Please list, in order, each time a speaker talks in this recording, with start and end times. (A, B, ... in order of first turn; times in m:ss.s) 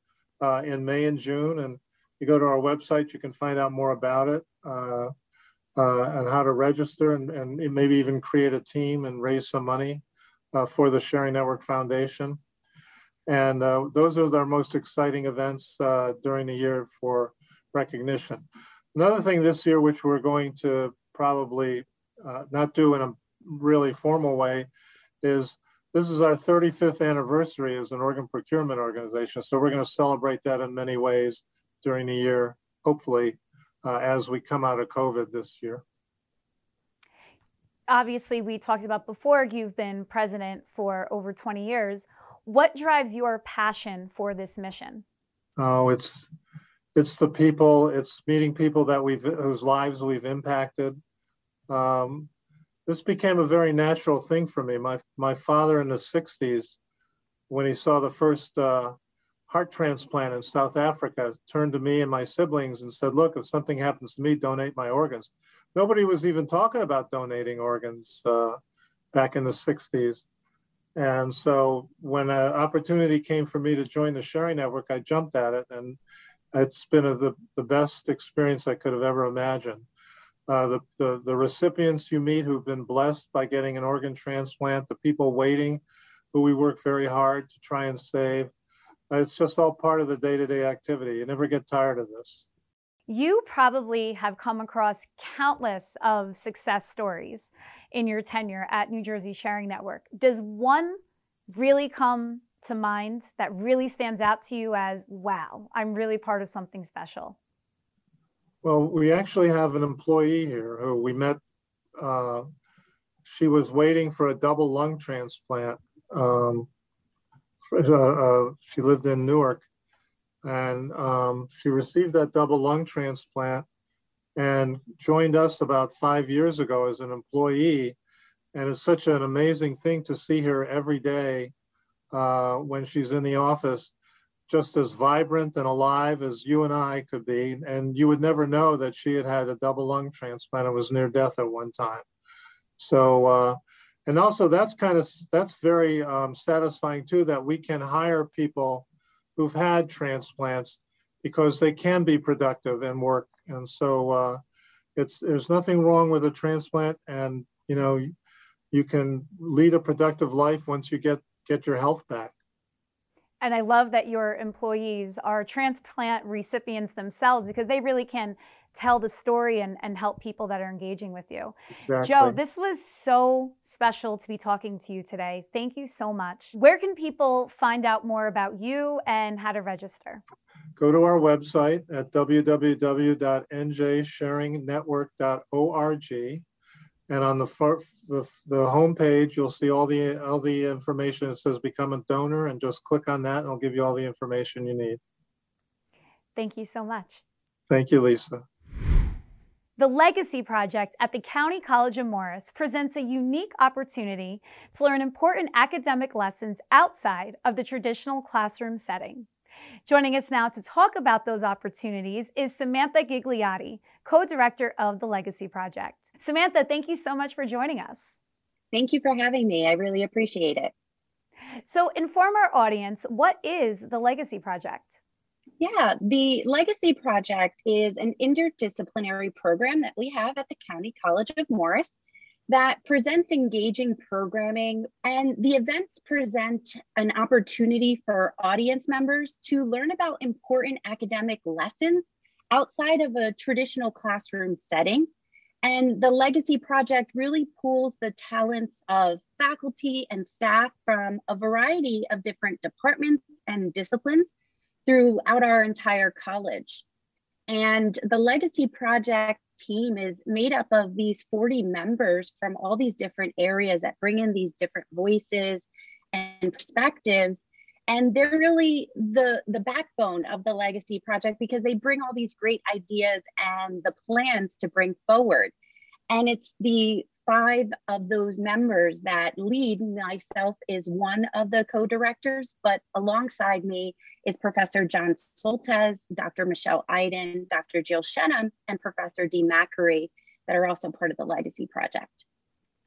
0:00.4-0:05.1 A
0:05.8-0:12.4 A
0:13.3-0:24.7 A
0:25.2-0:35.8 A
0:37.9-0:45.0 B
0:45.6-0:46.3 A
0:47.0-0:51.0 A
0:51.7-0:52.3 A
0:52.9-0:56.8 A
0:57.5-0:59.0 A
0:59.5-1:08.6 A
1:09.1-1:10.2 A
1:11.0-1:16.0 A
1:16.5-1:19.9 A
1:20.5-1:25.8 A
1:26.3-1:28.5 A
1:29.1-1:32.5 A
1:33.1-1:41.0 B
1:41.5-1:47.4 B
1:48.6-1:51.4 A
1:52.0-1:52.5 A
1:53.3-1:56.7 A
1:57.7-1:59.7 A
2:00.4-2:03.6 A
2:04.4-2:08.0 A
2:08.5-2:11.5 A
2:12.1-2:13.9 A
2:14.5-2:22.0 A
2:22.8-2:28.9 A
2:29.4-2:34.4 A
2:35.0-2:38.1 A
2:38.7-2:42.3 A
2:43.4-3:00.2 B
2:51.8-2:52.4 A
3:00.8-3:06.4 A
3:07.1-3:15.0 A
3:16.4-3:17.2 B
3:17.7-3:18.4 A
3:19.8-3:29.3 B
3:29.9-3:38.2 B
3:38.7-3:40.7 C
3:41.7-3:45.0 B
3:45.6-3:51.9 C
3:52.5-4:05.1 C
4:05.6-4:14.3 C
4:14.9-4:16.8 C
4:17.5-4:35.5 C
4:36.1-4:52.2 C